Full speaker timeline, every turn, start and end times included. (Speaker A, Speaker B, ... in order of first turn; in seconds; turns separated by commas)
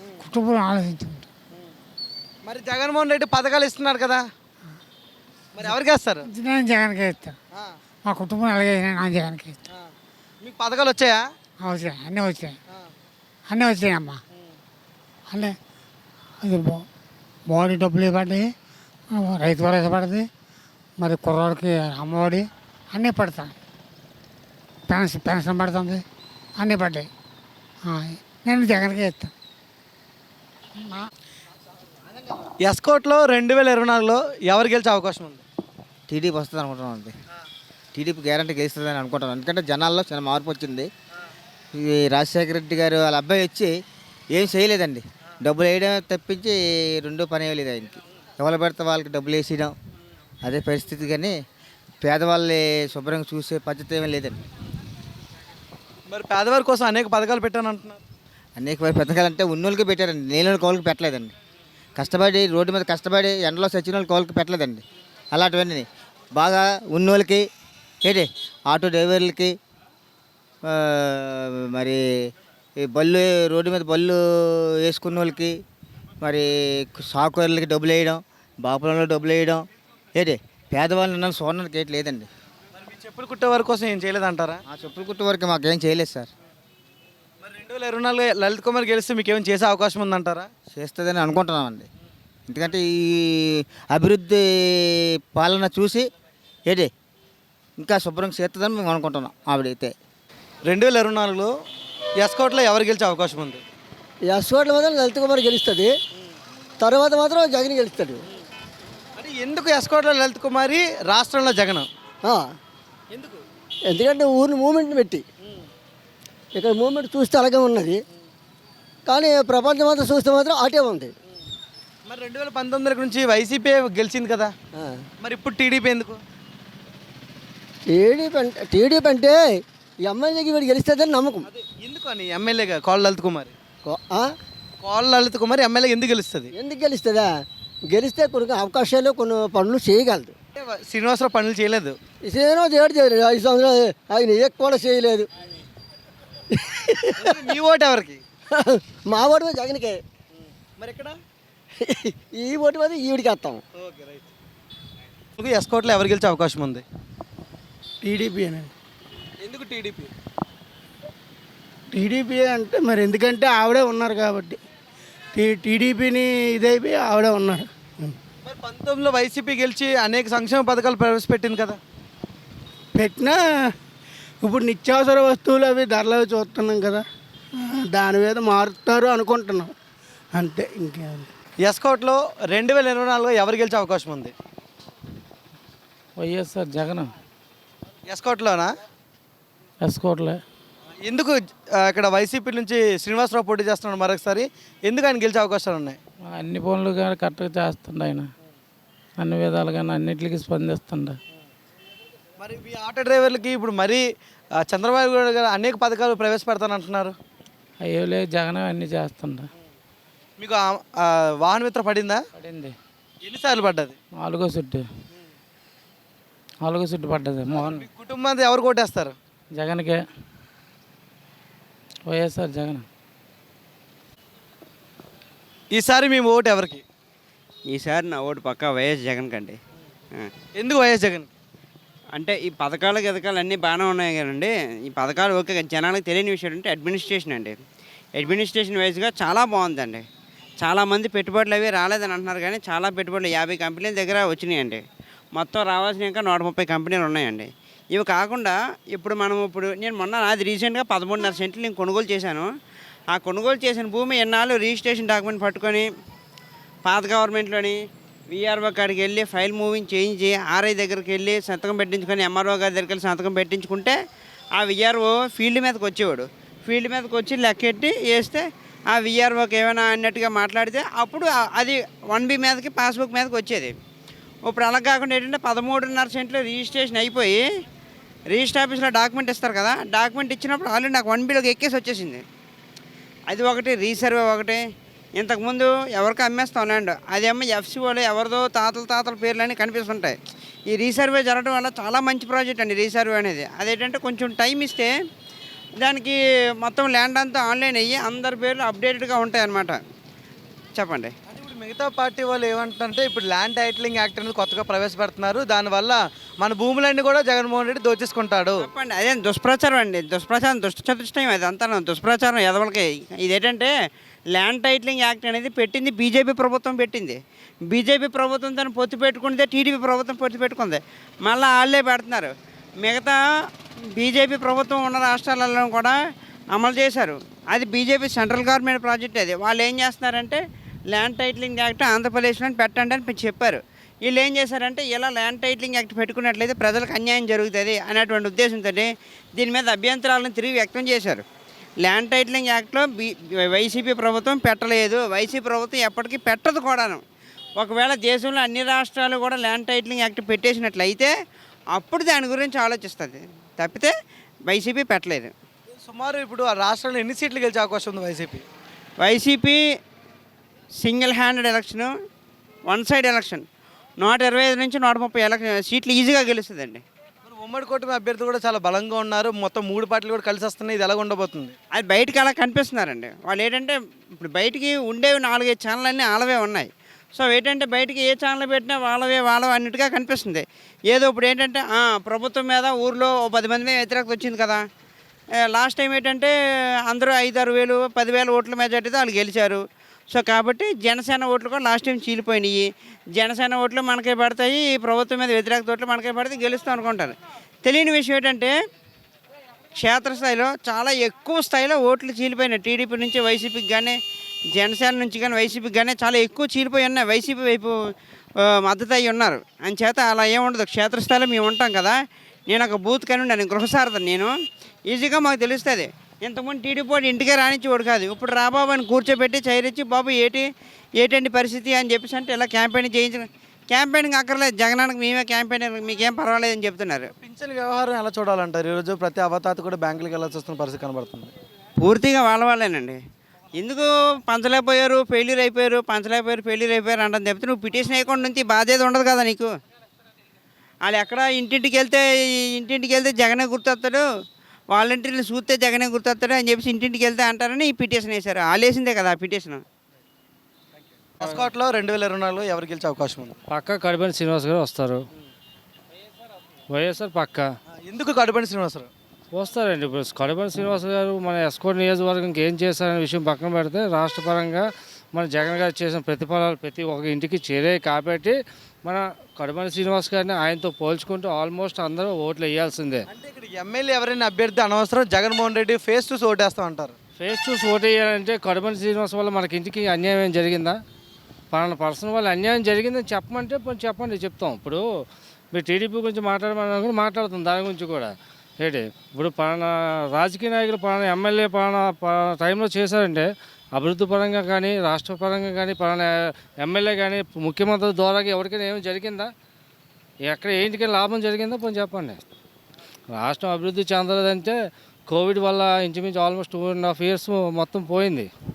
Speaker A: 0.2-1.2, Speaker B: 2.5-4.2, Speaker B: 5.6-6.3, Speaker A: 6.3-7.3, Speaker A: 8.1-9.5, Speaker B: 10.4-11.2, Speaker A: 11.6-12.5, Speaker A: 13.5-14.2, Speaker A: 16.4-16.8, Speaker A: 17.5-18.4, Speaker A: 19.1-20.2, Speaker A: 21.0-23.5, Speaker A: 24.9-26.0, Speaker A: 26.6-27.1, Speaker A: 27.9-29.3, Speaker B: 32.7-35.4, Speaker C: 36.1-37.1, Speaker C: 37.9-40.9, Speaker C: 41.8-43.7, Speaker C: 44.3-49.7, Speaker C: 50.4-51.4, Speaker C: 52.0-54.4, Speaker B: 56.1-58.0, Speaker C: 58.6-61.3, Speaker C: 62.0-67.5, Speaker C: 68.0-69.5, Speaker C: 70.7-72.0, Speaker C: 72.8-75.6, Speaker C: 76.2-79.6, Speaker C: 80.2-82.3, Speaker B: 82.8-84.6, Speaker C: 84.7-86.3, Speaker B: 87.4-90.5, Speaker C: 90.7-91.9, Speaker C: 92.5-96.1, Speaker C: 97.8-99.9, Speaker B: 100.7-101.5, Speaker B: 102.2-103.6, Speaker D: 104.3-105.9, Speaker D: 106.8-108.2, Speaker B: 109.2-111.9, Speaker B: 113.1-113.4, Speaker D: 113.9-115.2, Speaker D: 116.5-118.0, Speaker D: 119.1-121.1, Speaker B: 122.1-124.5, Speaker D: 124.8-125.0, Speaker B: 125.2-126.2, Speaker D: 127.9-129.4, Speaker D: 130.1-131.5, Speaker B: 131.4-133.5, Speaker D: 133.8-134.3, Speaker B: 134.8-136.5, Speaker D: 136.5-137.3, Speaker D: 137.9-140.3, Speaker B: 140.6-142.0, Speaker D: 142.2-145.3, Speaker D: 146.6-147.5, Speaker B: 147.2-148.2, Speaker D: 148.6-150.0, Speaker B: 150.8-151.2, Speaker D: 151.8-153.6, Speaker B: 153.8-154.3, Speaker B: 155.4-156.8, Speaker E: 158.0-158.7, Speaker B: 159.4-160.1, Speaker E: 161.9-164.6, Speaker E: 165.3-167.7, Speaker B: 168.5-171.8, Speaker E: 172.9-173.4, Speaker E: 174.4-177.0, Speaker E: 177.8-179.7, Speaker E: 180.3-181.3, Speaker B: 181.7-184.3, Speaker F: 186.2-187.1, Speaker B: 188.1-188.7, Speaker F: 189.8-190.4, Speaker B: 191.1-196.0, Speaker F: 196.3-198.3, Speaker F: 199.2-201.2, Speaker B: 202.4-204.0, Speaker B: 204.7-207.2, Speaker F: 207.8-209.5, Speaker B: 210.4-212.2, Speaker F: 212.4-212.7, Speaker B: 213.2-214.0, Speaker F: 214.2-214.8, Speaker F: 216.6-217.9, Speaker B: 217.5-219.2, Speaker F: 219.6-220.0, Speaker F: 222.1-222.8, Speaker B: 225.7-226.8, Speaker G: 227.7-229.6, Speaker B: 230.6-231.3, Speaker G: 232.2-237.6, Speaker G: 238.2-240.0, Speaker G: 240.6-244.8, Speaker G: 245.3-252.5, Speaker G: 253.1-255.9, Speaker G: 256.9-257.8, Speaker G: 258.3-264.0, Speaker G: 264.6-273.7, Speaker G: 274.4-277.4, Speaker G: 278.3-282.2, Speaker G: 283.3-284.6, Speaker G: 285.2-290.1, Speaker G: 290.7-294.9, Speaker G: 295.8-299.8, Speaker G: 300.8-301.1, Speaker B: 301.3-308.6, Speaker G: 308.6-313.7, Speaker G: 314.3-317.2, Speaker G: 317.7-322.3, Speaker G: 322.8-323.2, Speaker G: 323.9-326.0, Speaker G: 326.5-330.4, Speaker G: 330.9-341.2, Speaker G: 341.8-347.0, Speaker G: 347.6-351.1, Speaker G: 351.8-353.9, Speaker G: 354.5-355.3, Speaker B: 355.8-358.4, Speaker G: 359.0-359.6, Speaker G: 360.8-361.9, Speaker G: 362.7-363.4, Speaker G: 364.0-366.8, Speaker B: 367.3-371.5, Speaker G: 371.7-384.6, Speaker G: 385.5-386.3, Speaker G: 386.9-392.6, Speaker G: 393.2-398.5, Speaker G: 399.8-404.0, Speaker G: 404.5-407.7, Speaker G: 408.4-411.9, Speaker G: 412.5-414.3, Speaker G: 414.9-420.5, Speaker G: 421.0-427.1, Speaker B: 427.2-431.3, Speaker G: 431.8-433.0, Speaker G: 433.6-439.5, Speaker G: 440.9-444.0, Speaker G: 444.7-449.6, Speaker B: 451.2-453.4, Speaker H: 453.5-455.0, Speaker H: 456.7-457.5, Speaker B: 457.8-458.9, Speaker H: 459.3-473.0, Speaker B: 473.1-476.9, Speaker H: 477.2-480.8, Speaker H: 481.5-484.8, Speaker H: 485.5-499.3, Speaker H: 500.3-502.2, Speaker H: 503.1-504.6, Speaker H: 505.1-508.3